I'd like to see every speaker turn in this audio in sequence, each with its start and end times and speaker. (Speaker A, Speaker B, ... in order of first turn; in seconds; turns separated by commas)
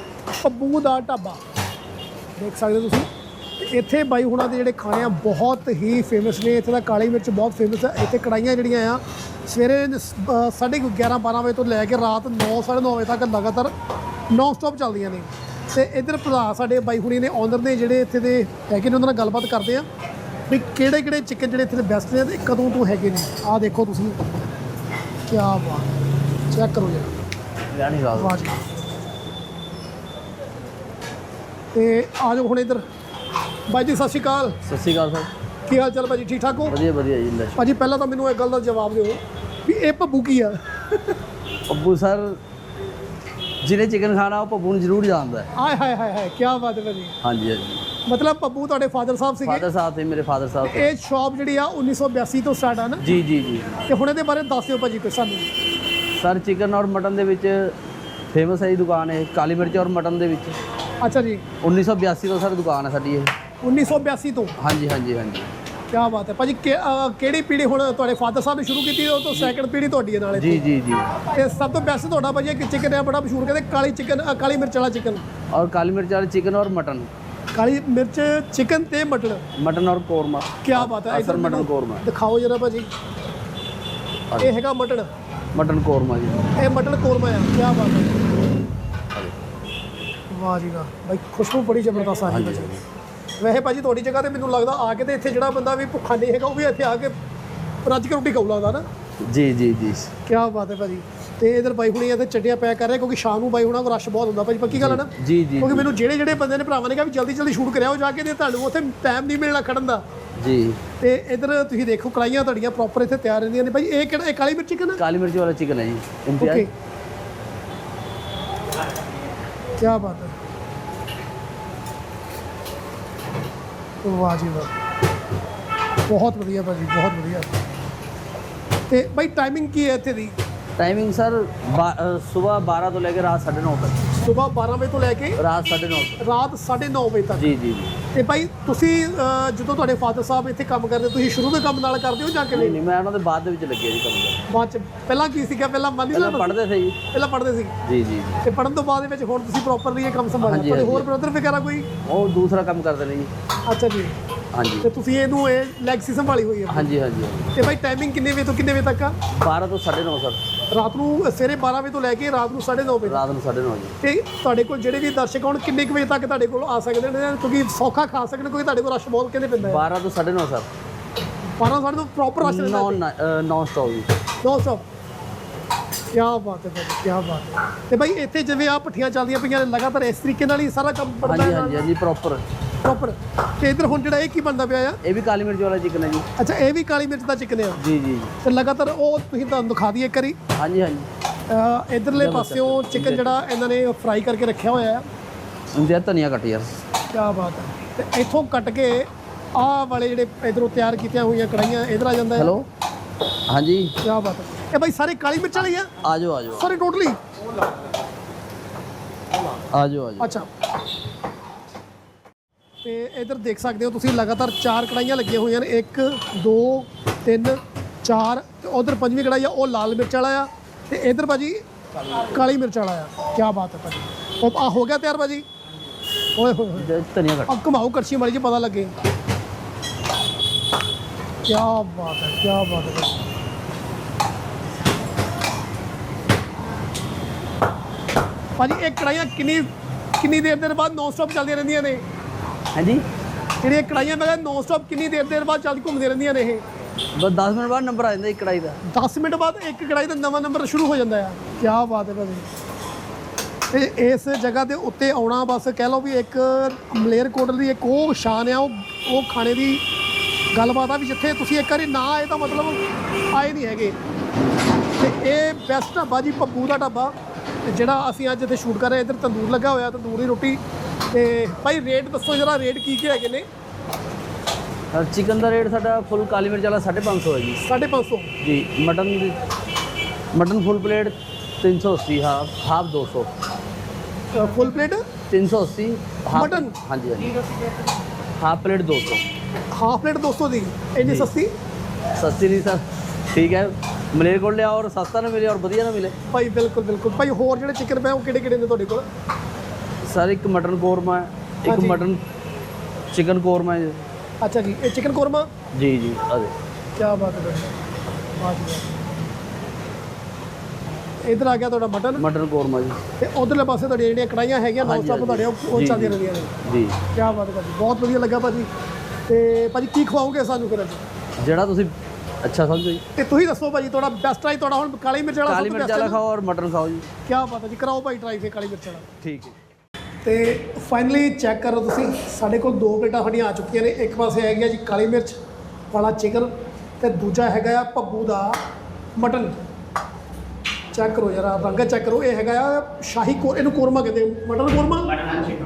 Speaker A: 0.4-1.4, Speaker A: 2.4-3.1, Speaker A: 3.6-13.7, Speaker A: 14.3-19.9, Speaker A: 20.5-24.3, Speaker A: 25.3-25.9, Speaker A: 26.5-27.1, Speaker B: 27.7-28.5, Speaker A: 28.2-28.6, Speaker A: 31.7-32.8, Speaker A: 33.7-34.5, Speaker B: 34.6-35.3, Speaker A: 35.7-36.7, Speaker B: 36.7-37.6, Speaker A: 37.6-41.1, Speaker B: 41.7-42.4, Speaker B: 43.6-45.5, Speaker A: 45.5-47.1, Speaker B: 47.2-47.8, Speaker A: 48.0-49.6, Speaker B: 49.4-50.9, Speaker A: 50.6-53.0, Speaker B: 53.0-53.8, Speaker A: 53.9-55.5, Speaker B: 56.2-57.7, Speaker B: 58.3-60.5, Speaker A: 61.0-61.4, Speaker B: 61.6-63.3, Speaker A: 63.6-64.5, Speaker B: 64.6-65.5, Speaker A: 65.9-70.6, Speaker B: 70.3-71.1, Speaker A: 71.3-75.2, Speaker B: 75.5-77.1, Speaker A: 77.5-79.4, Speaker B: 79.5-82.0, Speaker A: 80.6-82.9, Speaker A: 84.4-85.1, Speaker B: 85.5-86.4, Speaker A: 86.6-88.2, Speaker A: 90.3-92.7, Speaker B: 92.3-92.8, Speaker A: 93.4-97.1, Speaker A: 97.8-98.8, Speaker B: 99.2-100.1, Speaker A: 100.2-110.0, Speaker B: 104.7-105.9, Speaker B: 110.4-110.8, Speaker A: 111.0-115.0, Speaker B: 115.0-116.7, Speaker A: 116.4-116.7, Speaker A: 119.8-120.3, Speaker A: 124.0-124.7, Speaker A: 126.1-127.5, Speaker A: 128.9-130.3, Speaker B: 130.8-134.1, Speaker A: 134.2-135.4, Speaker B: 135.4-136.2, Speaker A: 136.2-137.5, Speaker B: 137.3-137.9, Speaker A: 138.1-142.8, Speaker B: 142.5-144.4, Speaker A: 144.5-146.5, Speaker B: 146.1-147.0, Speaker A: 147.1-147.7, Speaker B: 147.8-148.4, Speaker A: 148.4-151.9, Speaker B: 150.4-151.1, Speaker B: 152.0-153.3, Speaker A: 153.7-154.1, Speaker B: 154.5-154.9, Speaker A: 154.8-156.9, Speaker B: 156.7-157.5, Speaker A: 157.5-159.2, Speaker B: 159.3-160.4, Speaker A: 160.7-163.2, Speaker B: 163.0-163.9, Speaker A: 164.0-169.8, Speaker B: 169.6-170.7, Speaker A: 171.6-173.0, Speaker B: 172.4-174.1, Speaker A: 174.4-174.8, Speaker A: 176.1-181.8, Speaker B: 181.2-182.4, Speaker A: 182.8-185.0, Speaker B: 185.0-186.2, Speaker A: 186.4-187.8, Speaker B: 187.8-188.3, Speaker A: 188.4-190.3, Speaker B: 190.6-191.1, Speaker A: 191.5-195.1, Speaker B: 192.1-193.4, Speaker B: 195.7-196.7, Speaker A: 197.1-202.5, Speaker B: 202.4-202.7, Speaker B: 203.5-203.9, Speaker A: 204.0-205.9, Speaker B: 206.0-206.7, Speaker A: 206.6-207.2, Speaker B: 209.7-210.3, Speaker A: 210.2-210.5, Speaker A: 212.8-221.6, Speaker A: 222.2-225.4, Speaker A: 226.4-226.9, Speaker B: 226.8-227.5, Speaker A: 227.5-228.9, Speaker A: 231.5-233.2, Speaker A: 238.6-242.0, Speaker B: 242.7-243.0, Speaker A: 243.6-246.6, Speaker B: 247.1-248.8, Speaker A: 248.9-252.4, Speaker A: 253.7-259.8, Speaker A: 260.5-262.8, Speaker A: 263.3-263.9, Speaker A: 265.0-267.1, Speaker A: 267.7-270.6, Speaker A: 271.1-273.4, Speaker B: 274.9-277.6, Speaker A: 277.6-278.3, Speaker B: 278.4-279.3, Speaker B: 280.3-283.3, Speaker A: 284.3-285.0, Speaker B: 285.3-287.3, Speaker A: 286.3-286.7, Speaker B: 288.4-289.2, Speaker A: 289.7-291.5, Speaker B: 291.0-291.3, Speaker B: 292.1-296.1, Speaker A: 296.3-299.0, Speaker B: 300.0-302.2, Speaker A: 301.6-302.0, Speaker B: 303.1-304.0, Speaker A: 304.4-305.5, Speaker B: 305.7-306.5, Speaker A: 307.0-307.7, Speaker A: 308.4-308.9, Speaker A: 311.2-312.2, Speaker B: 312.1-313.0, Speaker A: 313.2-316.5, Speaker B: 314.8-317.0, Speaker A: 317.1-318.7, Speaker A: 319.3-321.0, Speaker B: 321.4-323.0, Speaker A: 323.1-326.2, Speaker B: 325.4-327.1, Speaker A: 327.2-329.1, Speaker B: 329.2-329.5, Speaker A: 330.2-335.4, Speaker A: 335.9-338.6, Speaker A: 339.2-339.5, Speaker A: 340.9-345.1